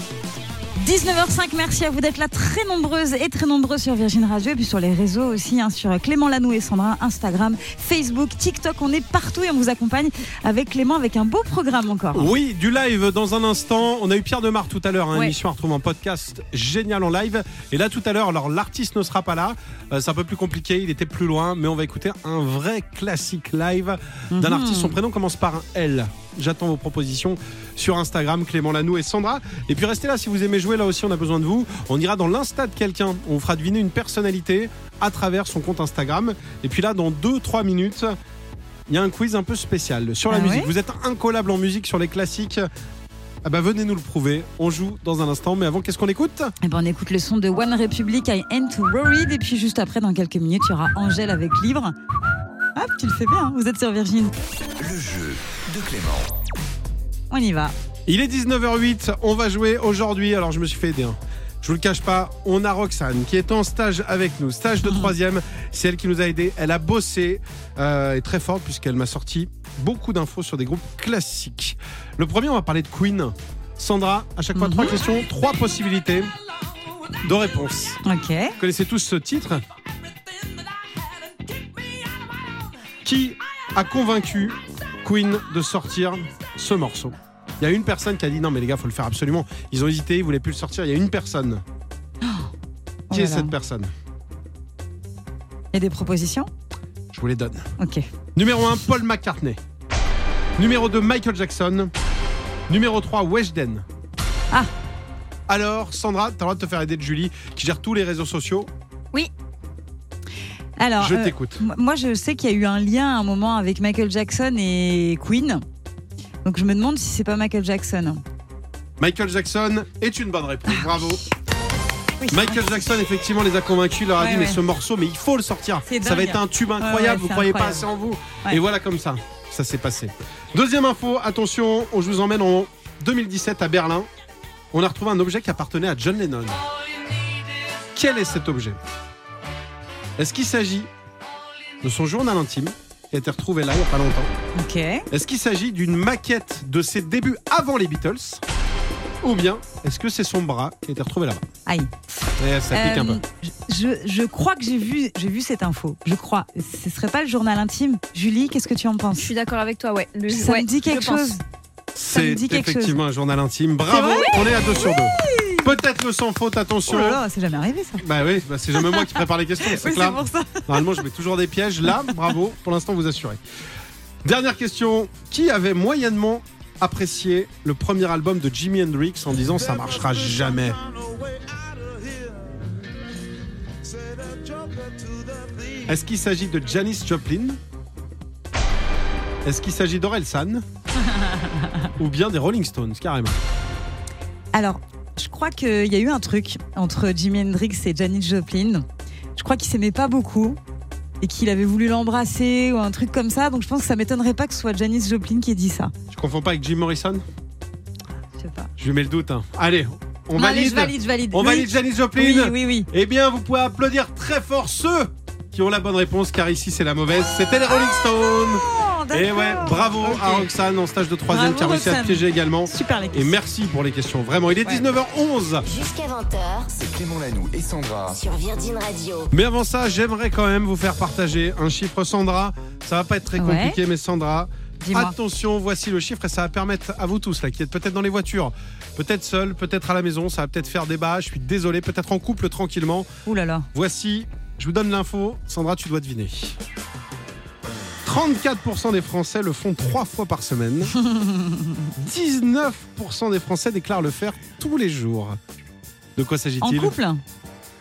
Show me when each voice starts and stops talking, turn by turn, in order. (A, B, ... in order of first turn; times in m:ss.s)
0:00.8-0:12.3 A
0:12.1-0:38.2 B
0:24.3-0:25.0 A
0:38.9-0:42.7 B
0:40.3-0:40.7 A
0:43.4-0:46.5 B
0:46.6-0:52.0 A
0:52.8-0:54.3 A
0:54.8-0:56.4 C
0:57.3-0:57.7 A
0:58.1-1:16.3 B
1:14.6-1:14.9 A
1:17.2-1:18.0 B
1:18.0-1:18.6 A
1:18.6-1:19.6 B
1:23.0-1:31.6 B
1:32.2-1:32.5 A
1:33.1-1:33.5 A
1:33.1-1:33.9 B
1:35.7-1:36.5 A
1:37.1-1:37.7 B
1:37.8-1:38.0 A
1:38.4-1:39.6 B
1:40.6-1:41.9 B
1:42.7-1:43.9 B
1:45.5-1:48.7 B
1:50.8-1:55.6 A
1:51.0-1:51.6 B
1:56.4-1:58.2 A
1:59.0-2:01.2 B
2:00.7-2:01.0 A
2:02.2-2:02.6 A
2:02.3-2:14.1 B
2:04.2-2:04.6 A
2:05.9-2:07.9 A
2:14.7-2:16.6 B
2:17.9-2:18.8 B
2:20.2-2:20.9 B
2:21.8-2:24.3 B
2:24.6-2:25.1 A
2:25.1-2:28.4 B
2:29.2-2:31.4 B
2:31.7-2:31.9 A
2:32.4-2:33.2 B
2:32.7-2:39.3 A
2:39.1-2:41.4 D
2:40.3-2:41.4 A
2:42.0-2:47.2 B
2:42.1-2:43.0 A
2:43.9-2:45.7 A
2:46.9-2:48.1 A
2:48.0-2:53.4 B
2:48.7-2:50.9 A
2:54.2-3:00.8 B
3:05.8-3:07.6 B
3:09.4-3:10.6 B
3:12.0-3:13.4 B
3:14.5-3:18.8 A
3:19.4-3:20.6 A
3:21.2-3:25.9 A
3:26.1-3:27.2 B
3:28.4-3:28.7 A
3:28.8-3:45.6 B
3:30.4-3:32.9 A
3:38.1-3:40.5 A
3:41.3-3:43.4 A
3:45.6-3:46.7 E
3:46.7-3:48.2 C
3:48.1-3:49.3 E
3:49.3-4:03.1 B
3:53.4-3:53.8 A
3:54.8-3:55.2 A
4:03.3-4:03.7 A
4:03.7-4:06.6 B
4:08.0-4:11.0 B
4:11.0-4:11.9 A
4:12.0-4:15.4 B
4:16.2-4:17.0 B
4:16.6-4:17.2 A